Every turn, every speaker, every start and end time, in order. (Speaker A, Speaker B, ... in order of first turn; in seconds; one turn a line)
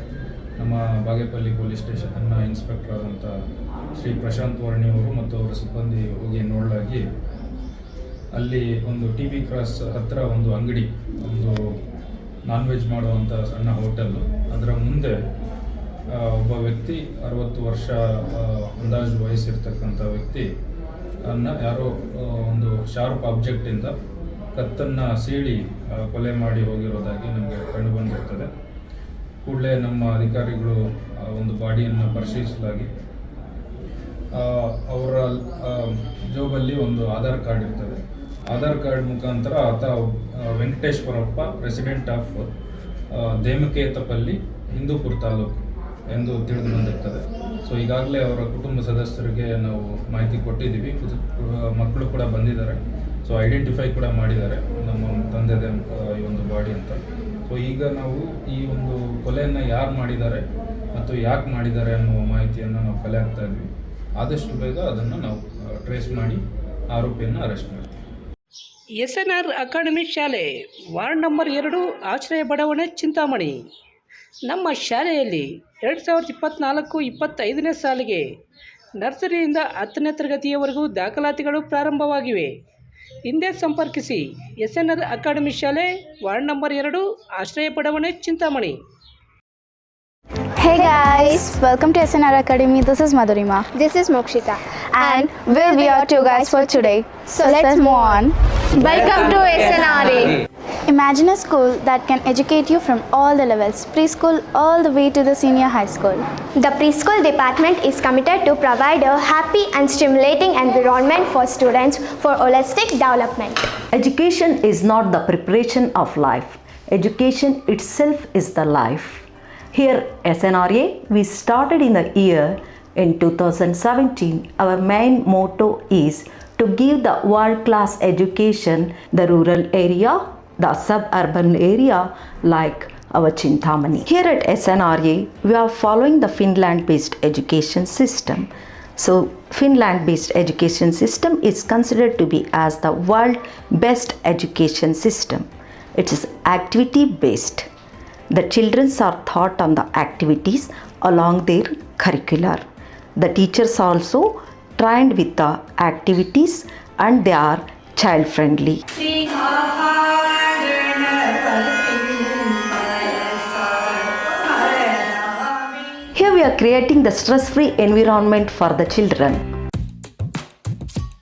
Speaker A: 0.6-3.3
Speaker A: 3.9-7.0
Speaker A: 8.3-11.5
Speaker A: 12.5-15.1
Speaker A: 16.2-20.4
Speaker A: 21.3-23.9
Speaker A: 24.6-28.5
Speaker A: 29.4-32.9
Speaker A: 34.4-38.0
Speaker A: 38.5-39.9
Speaker A: 40.5-42.4
Speaker A: 43.2-60.4
Speaker A: 60.9-63.7
Speaker A: 64.2-66.4
Speaker A: 66.9-67.9
Speaker B: 69.0-73.6
Speaker B: 74.5-78.2
Speaker B: 79.0-82.5
Speaker B: 83.2-88.8
Speaker C: 90.6-93.7
Speaker D: 90.8-91.4
Speaker D: 93.7-98.2
Speaker C: 94.9-98.3
Speaker D: 98.7-100.4
Speaker C: 100.9-106.2
Speaker D: 106.6-113.7
Speaker E: 113.9-147.7
Speaker E: 148.3-152.6
Speaker E: 153.2-158.8
Speaker B: 161.3-161.8
Speaker E: 166.1-169.4